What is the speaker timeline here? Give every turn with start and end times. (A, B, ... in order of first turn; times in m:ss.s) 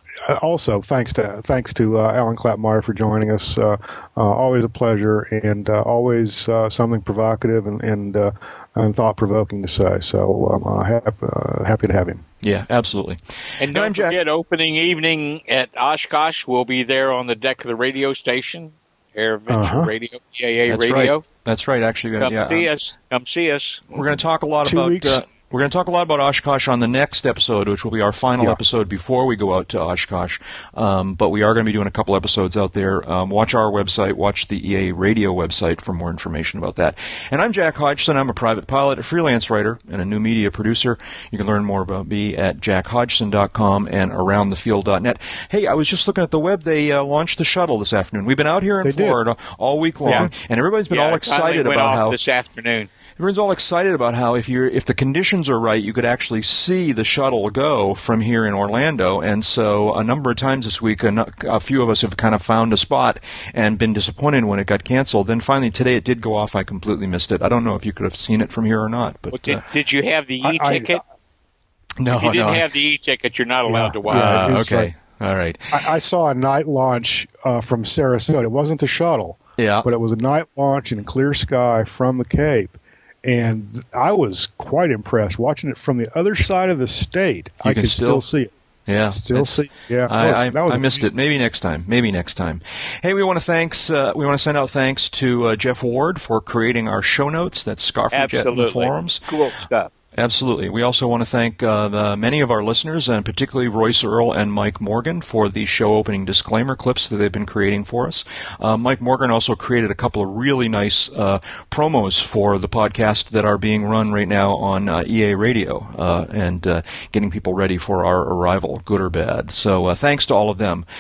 0:00.2-0:12.3 A
0:12.4-0:14.2 B
0:13.6-0:21.2 C
0:19.5-0:19.9 A
0:20.7-0:22.7 B
0:22.2-0:23.8 C
0:23.9-0:52.2 B
0:24.6-0:25.2 A
0:48.8-0:49.2 A
0:50.0-0:50.3 A
0:50.9-0:52.9 C
0:53.2-1:09.6 B
1:09.3-1:11.0 C
1:10.4-1:11.0 A
1:12.0-1:12.6 B
1:12.1-1:14.4 C
1:13.7-1:14.9 A
1:14.1-1:15.9 B
1:15.7-1:28.5 A
1:19.6-1:19.9 B
1:27.6-1:28.2 B
1:28.9-1:39.3 B
1:29.1-1:31.1 A
1:38.1-1:39.9 C
1:40.2-2:00.9 B